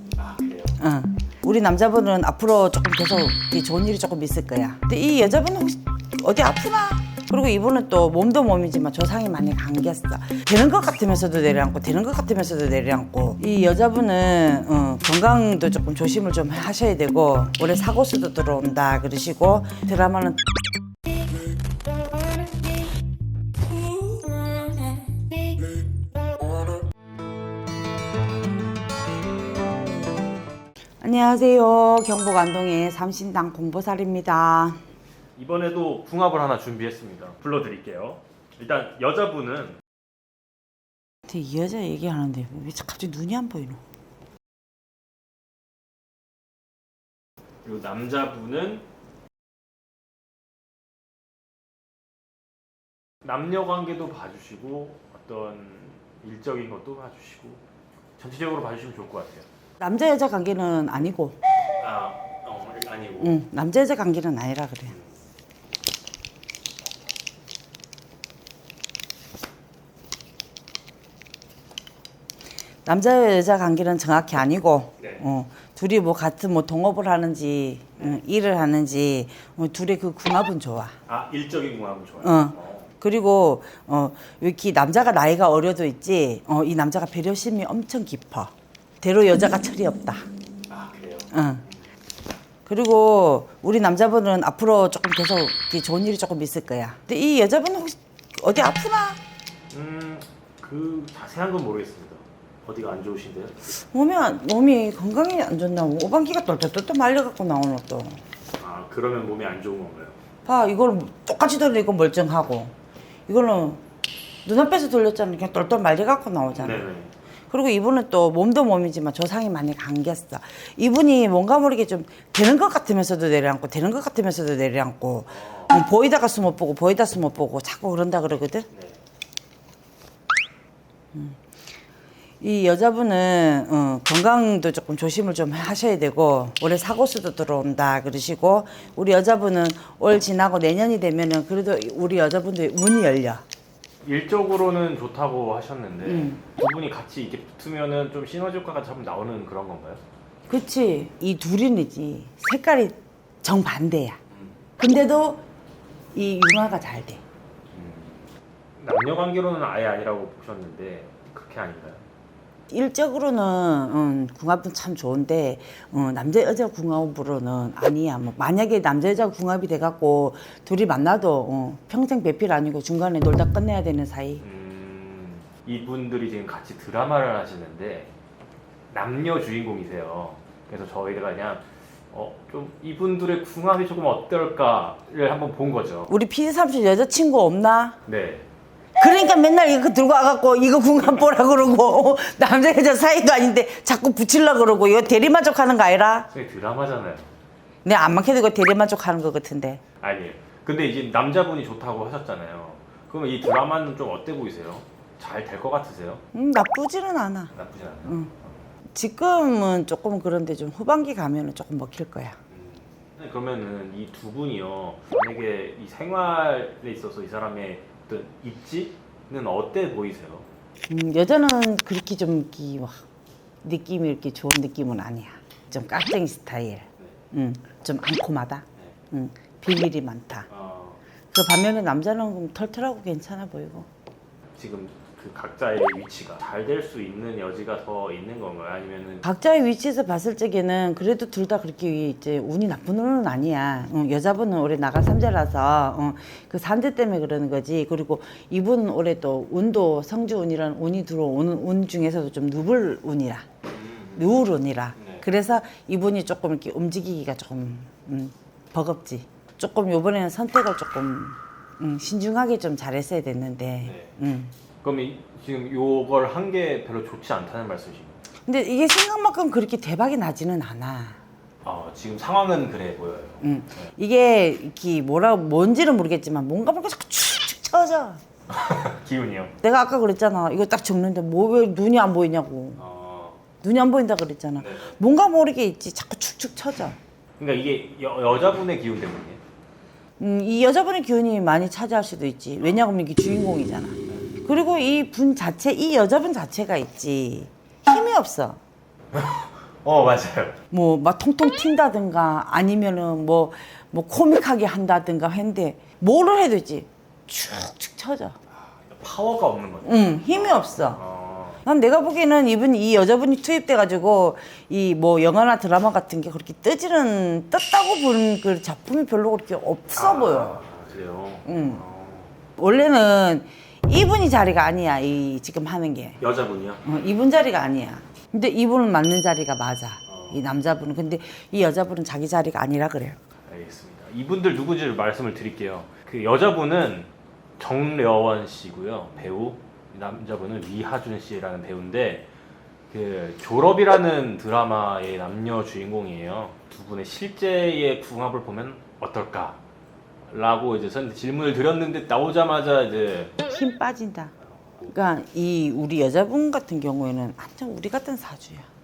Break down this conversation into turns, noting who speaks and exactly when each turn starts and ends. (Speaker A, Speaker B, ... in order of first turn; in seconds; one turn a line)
Speaker A: 0.2-0.8
Speaker B: 0.8-20.4
Speaker B: 31.0-34.8
Speaker A: 35.4-39.8
Speaker B: 41.3-43.8
Speaker A: 47.6-48.9
Speaker A: 53.2-57.6
Speaker A: 58.2-59.5
Speaker B: 59.8-61.4
Speaker A: 61.8-63.4
Speaker B: 63.2-64.9
Speaker A: 64.9-65.2
Speaker B: 72.9-81.0
Speaker A: 75.0-75.2
Speaker A: 81.1-82.9
Speaker B: 82.2-90.3
Speaker A: 90.7-91.3
Speaker B: 91.3-91.6
Speaker B: 92.7-99.2
Speaker A: 99.7-103.6
Speaker B: 103.7-108.2
Speaker A: 108.6-110.2
Speaker B: 110.5-112.7
Speaker B: 113.3-113.8
Speaker B: 114.5-116.9
Speaker A: 116.5-117.1
Speaker B: 117.5-128.7
Speaker A: 125.3-125.8
Speaker A: 128.7-129.0
Speaker B: 131.1-131.4
Speaker B: 132.4-143.4
Speaker A: 144.0-150.0
Speaker B: 146.1-146.4
Speaker B: 150.5-154.2
Speaker A: 154.3-154.6
Speaker B: 154.8-155.4
Speaker B: 156.1-157.2
Speaker A: 157.7-162.1
Speaker B: 162.7-174.4
Speaker A: 174.4-178.1
Speaker A: 178.9-186.2
Speaker B: 186.1-188.0
Speaker A: 188.1-188.5
Speaker B: 189.0-196.3
Speaker A: 196.3-197.3
Speaker B: 197.8-199.8
Speaker A: 200.0-206.2
Speaker B: 206.3-207.5
Speaker A: 207.5-208.5
Speaker B: 208.1-208.3
Speaker B: 208.9-212.4
Speaker A: 212.5-220.5
Speaker B: 220.9-223.1
Speaker B: 223.6-230.5
Speaker A: 230.5-231.0
Speaker B: 231.3-233.9
Speaker A: 234.6-239.3
Speaker B: 239.2-253.5
Speaker A: 253.7-254.4
Speaker B: 254.2-264.5
Speaker A: 255.0-255.3
Speaker A: 263.9-264.1
Speaker A: 264.8-268.2
Speaker B: 268.5-271.2
Speaker A: 271.6-273.9
Speaker B: 273.4-278.2
Speaker A: 278.5-279.6
Speaker B: 279.6-282.8
Speaker A: 282.8-283.4
Speaker B: 283.6-287.0
Speaker A: 284.6-285.0
Speaker A: 287.4-289.4
Speaker B: 290.2-298.6
Speaker A: 294.1-294.4
Speaker A: 299.1-300.6
Speaker B: 300.7-308.4
Speaker A: 308.5-311.6
Speaker B: 309.8-311.0
Speaker B: 311.6-320.6
Speaker A: 319.9-322.4
Speaker B: 321.4-321.8
Speaker B: 322.6-326.2
Speaker A: 326.2-326.9
Speaker B: 326.9-333.2
Speaker A: 330.1-330.4
Speaker A: 333.5-342.3
Speaker A: 342.9-349.6
Speaker A: 350.3-353.4
Speaker B: 353.4-354.3
Speaker B: 354.9-358.7